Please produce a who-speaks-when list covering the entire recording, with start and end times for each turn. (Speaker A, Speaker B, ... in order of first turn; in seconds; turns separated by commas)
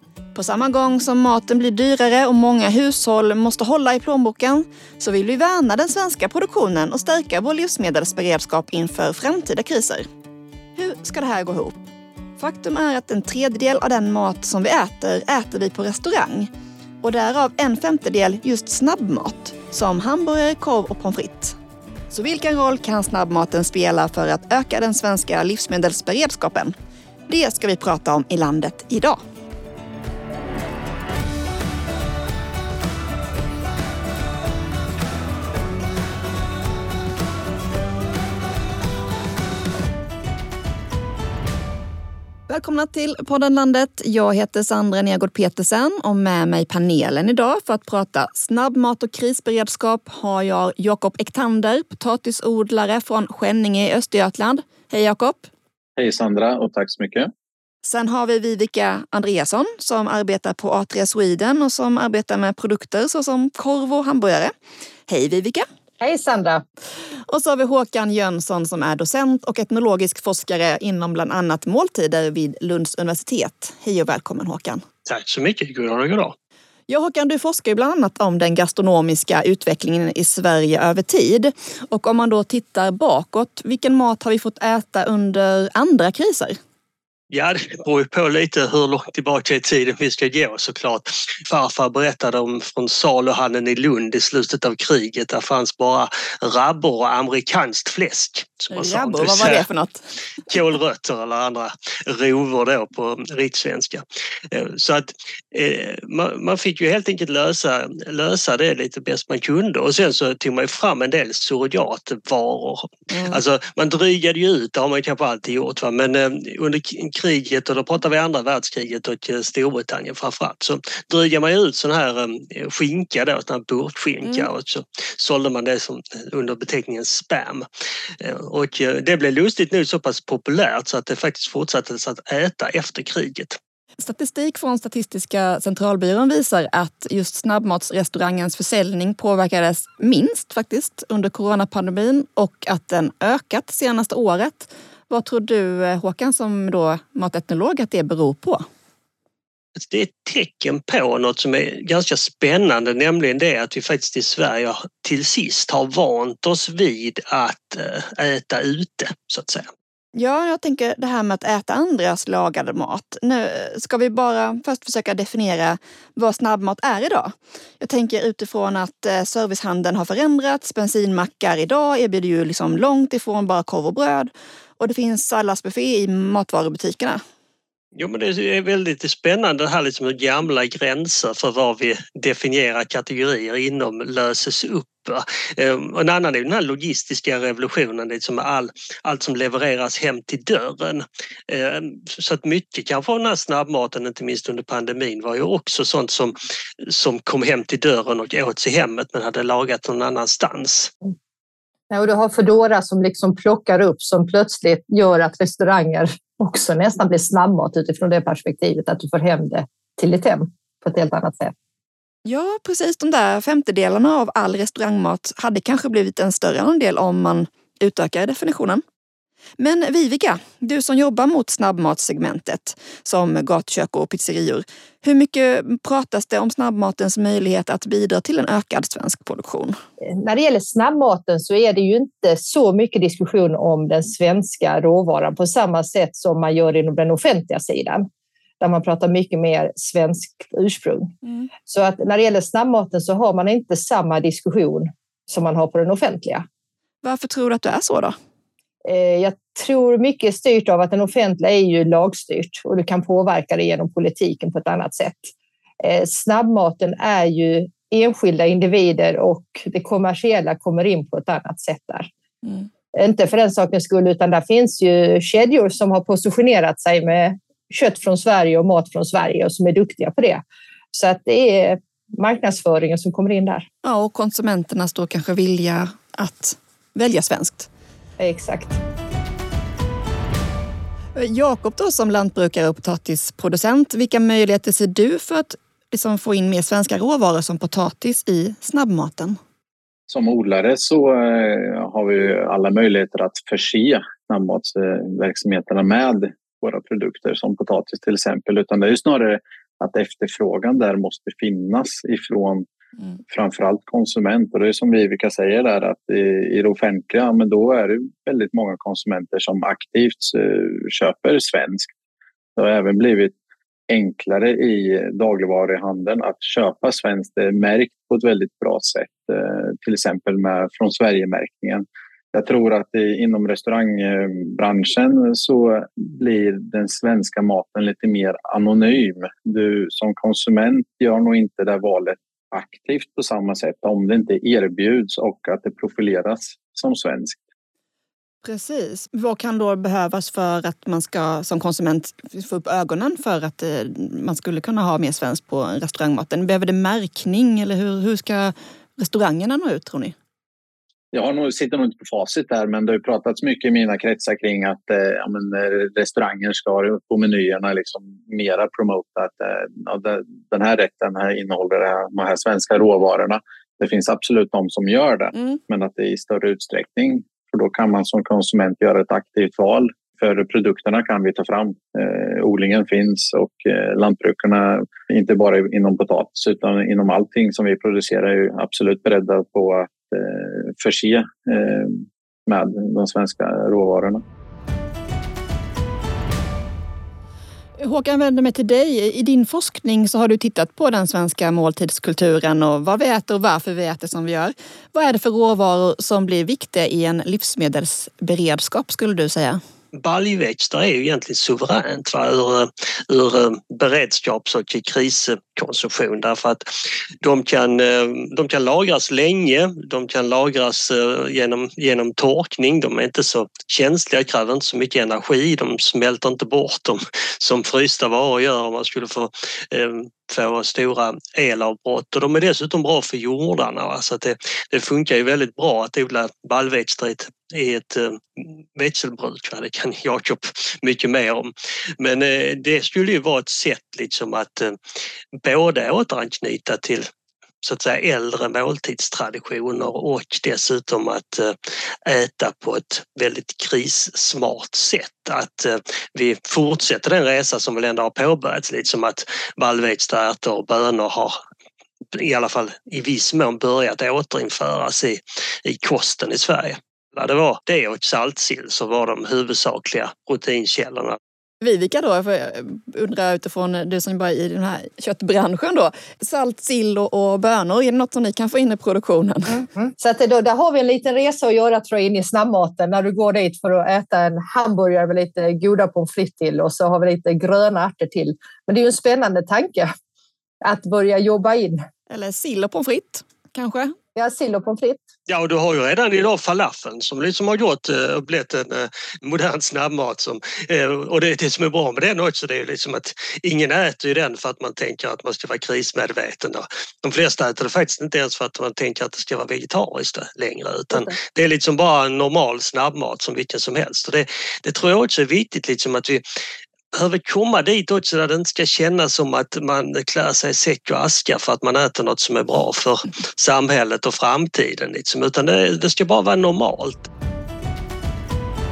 Speaker A: 0.3-10.1, Speaker A: 10.8-11.8, Speaker A: 12.4-16.5, Speaker A: 17.0-21.6, Speaker A: 22.1-26.7, Speaker A: 27.3-29.2, Speaker A: 42.5-55.5, Speaker B: 56.0-57.3, Speaker A: 57.8-64.5, Speaker A: 65.1-65.7, Speaker C: 66.0-66.6, Speaker A: 67.3-74.8, Speaker D: 75.0-76.3, Speaker A: 76.9-86.6, Speaker D: 87.3-99.7, Speaker A: 98.7-100.0, Speaker D: 100.5-127.6, Speaker A: 113.1-113.4, Speaker D: 128.2-133.6, Speaker A: 134.0-148.6, Speaker D: 149.8-159.7, Speaker A: 160.1-177.2, Speaker D: 177.9-200.9, Speaker C: 201.9-211.5, Speaker A: 212.2-218.8, Speaker A: 219.6-229.8, Speaker C: 230.0-238.1, Speaker C: 238.6-241.1, Speaker C: 241.7-246.4, Speaker A: 247.0-248.1, Speaker C: 248.8-262.1, Speaker C: 262.9-273.7, Speaker A: 273.8-277.7, Speaker C: 278.2-278.8, Speaker A: 281.1-289.4, Speaker B: 290.1-302.6, Speaker B: 303.3-311.9, Speaker B: 312.6-313.4, Speaker B: 313.9-337.4, Speaker A: 338.4-350.1, Speaker B: 351.1-384.2, Speaker A: 387.8-399.6, Speaker D: 399.9-406.6, Speaker D: 407.2-434.8, Speaker D: 435.4-437.1, Speaker D: 437.6-451.4, Speaker D: 452.1-461.2, Speaker A: 461.6-469.6, Speaker C: 469.5-479.9, Speaker C: 480.6-481.8, Speaker A: 482.1-483.9, Speaker C: 484.1-485.0, Speaker D: 485.3-506.2, Speaker D: 506.9-517.1